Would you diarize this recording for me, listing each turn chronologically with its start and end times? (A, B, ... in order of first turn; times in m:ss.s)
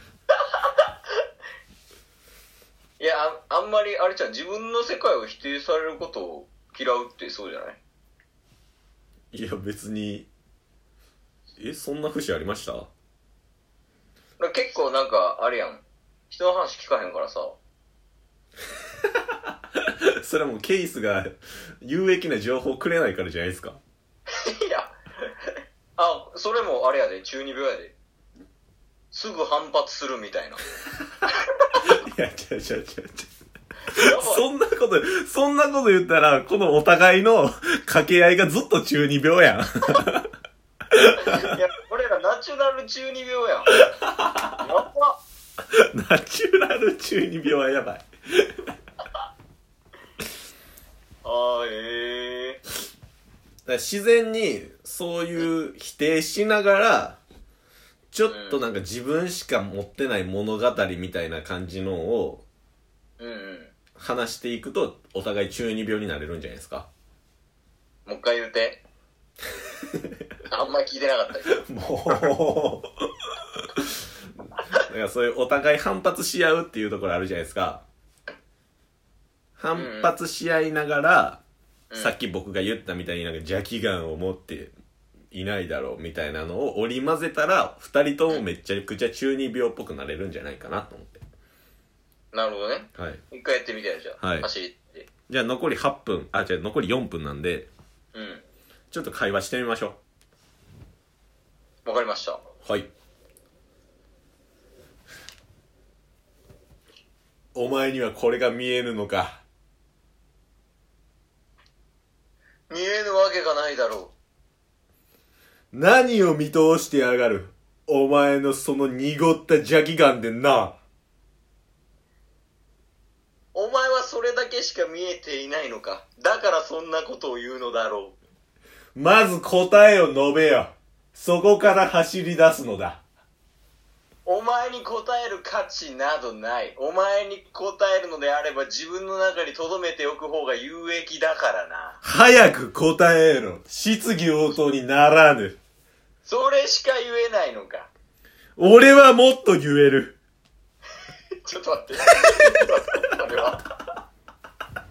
0:00.5-0:00.9 A
0:03.0-0:07.8 A
0:09.3-0:10.3 B
0:11.6-0:12.9 B
0:14.4-0:17.6 A
0:19.9-0:23.8 B
0:24.4-0:28.0 A
0:29.1-0:30.6 A
0:31.8-0:33.3 B
0:33.9-0:34.4 A
0:34.1-0:40.2 B
0:40.9-0:41.5 B
0:41.2-0:43.8 A
0:43.9-0:44.5 B
0:44.6-0:45.2 A
0:45.8-0:48.5 B
0:51.2-0:52.6 A
0:53.7-0:57.2 B
0:58.1-1:02.4 B
0:58.3-0:58.6 A
1:03.2-1:03.7 A
1:04.0-1:06.9 B
1:08.0-1:08.8 A
1:10.5-1:11.6 A
1:11.5-1:12.9 B
1:13.5-1:13.9 B
1:14.8-1:17.8 B
1:19.6-1:21.4 B
1:19.7-1:20.1 A
1:22.0-1:24.7 B
1:25.3-1:31.2 B
1:32.3-1:35.1 A
1:33.0-1:33.2 B
1:34.2-1:34.5 B
1:35.3-1:37.7 B
1:38.1-1:38.4 A
1:38.9-1:40.0 B
1:41.8-1:42.4 A
1:47.5-1:49.4 B
1:52.7-1:54.1 A
1:55.7-2:00.8 B
2:03.5-2:08.2 A
2:08.9-2:13.0 B
2:14.2-2:22.0 A
2:22.0-2:25.6 B
2:26.2-2:27.9 A
2:28.6-2:30.2 B
2:31.4-2:33.6 A